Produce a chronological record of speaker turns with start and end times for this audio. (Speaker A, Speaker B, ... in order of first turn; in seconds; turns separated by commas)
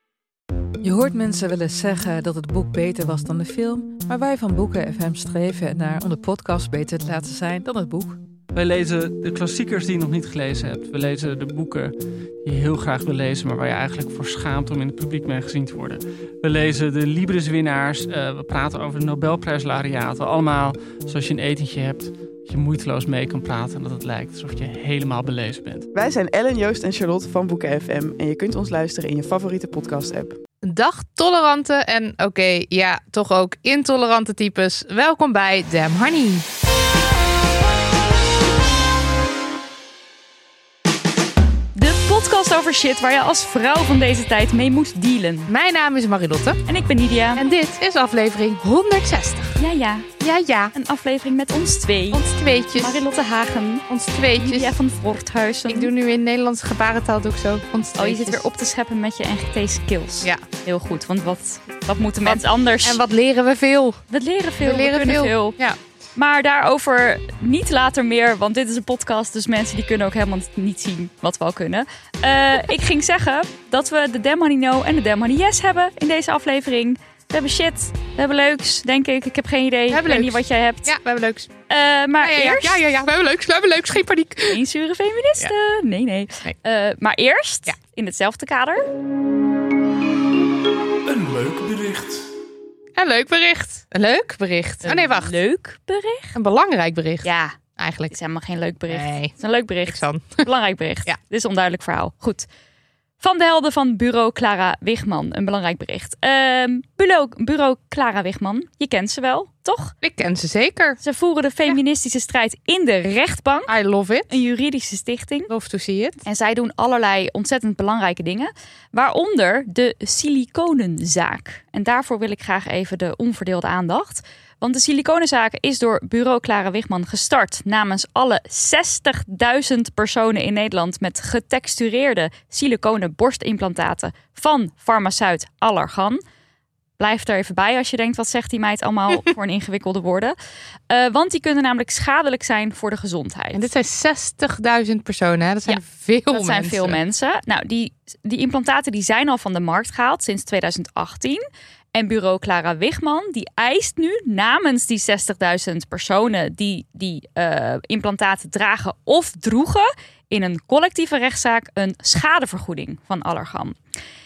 Speaker A: 0.8-8.2, Speaker B: 8.5-11.9, Speaker B: 12.4-25.9, Speaker C: 25.9-30.4, Speaker D: 30.6-36.5, Speaker E: 41.8-45.5, Speaker D: 45.5-46.6, Speaker E: 46.7-47.4, Speaker D: 47.4-49.6, Speaker E: 49.6-50.1, Speaker D: 50.2-50.7, Speaker E: 50.7-52.2, Speaker D: 52.1-53.0, Speaker E: 52.8-55.9, Speaker D: 53.9-54.7, Speaker D: 55.7-58.4, Speaker E: 58.0-63.0, Speaker D: 62.2-64.0, Speaker E: 64.1-65.6, Speaker D: 64.6-65.8, Speaker E: 66.2-80.9, Speaker D: 79.9-81.5, Speaker E: 81.7-82.8, Speaker D: 82.2-84.6, Speaker E: 84.5-88.9, Speaker B: 91.1-92.2, Speaker D: 93.0-95.3, Speaker E: 94.8-96.4, Speaker D: 96.3-98.1, Speaker E: 97.2-97.6, Speaker E: 98.1-102.5, Speaker D: 98.9-99.3, Speaker D: 99.9-100.5, Speaker E: 103.2-109.9, Speaker D: 110.0-111.0, Speaker E: 111.0-113.7, Speaker D: 113.7-114.3, Speaker E: 114.3-115.5, Speaker D: 115.5-116.2, Speaker E: 116.2-136.2, Speaker E: 137.0-140.3, Speaker E: 140.9-143.7, Speaker D: 143.5-147.0, Speaker E: 145.7-151.4, Speaker E: 151.9-163.8